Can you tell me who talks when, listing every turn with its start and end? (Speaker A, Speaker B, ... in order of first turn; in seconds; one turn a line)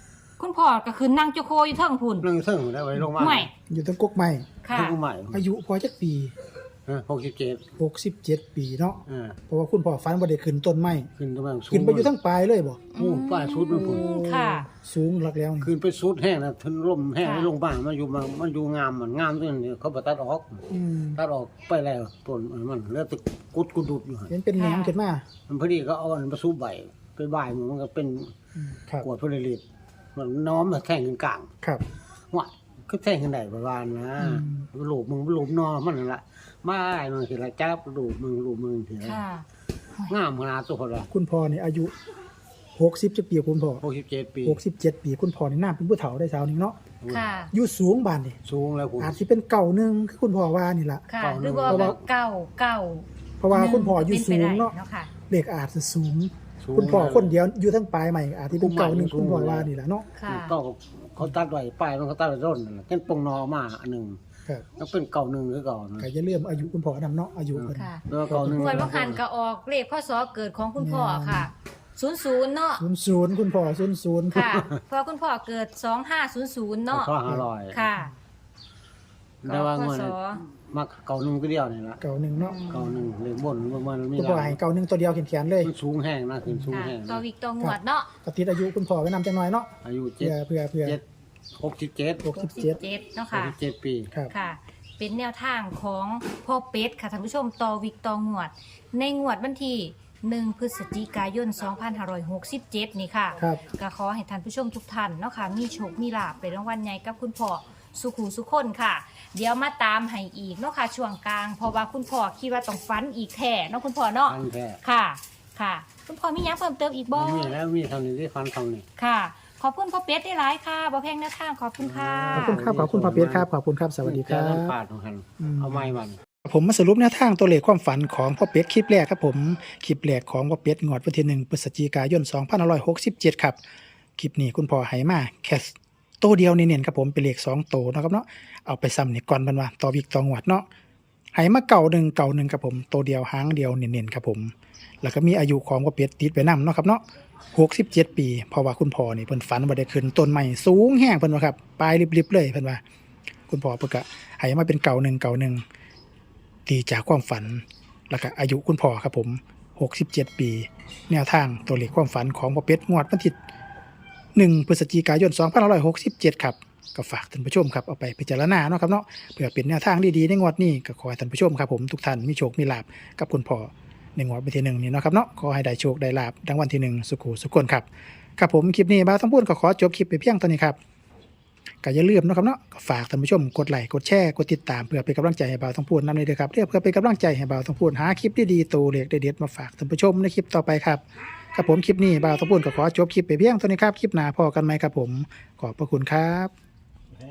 Speaker A: 0.4-2.3
Speaker B: 2.2-3.5
Speaker A: 3.2-3.5
Speaker C: 3.7-4.6
Speaker A: 4.6-5.0
Speaker B: 4.7-5.5
Speaker C: 5.3-6.3
Speaker B: 6.9-7.7
Speaker C: 7.8-11.1
Speaker B: 9.1-9.4
Speaker B: 11.2-12.1
Speaker C: 11.7-12.9
Speaker A: 12.9-14.7
Speaker B: 12.9-14.1
Speaker C: 13.7-15.7
Speaker B: 15.6-24.3
Speaker A: 17.2-17.5
Speaker C: 20.7-21.2
Speaker C: 24.3-25.2
Speaker A: 24.6-24.9
Speaker B: 25.5-28.3
Speaker C: 28.6-29.1
Speaker B: 29.0-29.6
Speaker B: 30.1-31.5
Speaker B: 32.3-39.2
Speaker C: 34.2-34.7
Speaker A: 39.0-39.5
Speaker B: 40.1-41.1
Speaker C: 41.1-41.9
Speaker C: 42.8-43.8
Speaker B: 43.8-44.6
Speaker C: 44.4-46.8
Speaker B: 47.0-47.3
Speaker A: 47.1-47.5
Speaker C: 47.5-48.4
Speaker B: 48.5-49.2
Speaker C: 49.0-51.0
Speaker A: 51.1-55.1
Speaker B: 51.2-52.0
Speaker C: 51.7-52.0
Speaker C: 53.4-54.7
Speaker C: 55.3-60.1
Speaker B: 56.6-57.4
Speaker B: 58.5-59.7
Speaker A: 60.1-60.6
Speaker B: 60.3-64.2
Speaker B: 64.8-66.1
Speaker C: 66.0-69.0
Speaker B: 67.5-69.2
Speaker A: 67.7-72.8
Speaker C: 70.8-71.5
Speaker C: 72.8-74.6
Speaker A: 74.3-77.1
Speaker B: 76.9-77.9
Speaker A: 77.7-78.1
Speaker B: 79.4-82.0
Speaker A: 79.5-80.4
Speaker C: 82.0-82.6
Speaker A: 82.4-83.0
Speaker B: 82.7-84.6
Speaker C: 84.2-85.7
Speaker B: 85.6-87.2
Speaker C: 86.5-86.8
Speaker A: 86.7-88.1
Speaker C: 87.6-89.7
Speaker B: 89.8-91.0
Speaker C: 90.2-91.0
Speaker B: 91.6-92.3
Speaker C: 92.2-92.8
Speaker A: 92.4-93.6
Speaker B: 93.3-94.1
Speaker A: 94.3-117.5
Speaker B: 114.3-114.8
Speaker B: 117.1-118.8
Speaker A: 119.0-122.6
Speaker B: 121.8-123.5
Speaker C: 122.3-124.8
Speaker B: 124.0-126.2
Speaker C: 125.4-125.9
Speaker C: 126.4-133.6
Speaker C: 134.2-140.7
Speaker C: 141.3-147.0
Speaker C: 147.5-152.8
Speaker C: 153.5-155.6
Speaker C: 156.7-163.4
Speaker C: 164.3-180.8
Speaker C: 181.8-196.5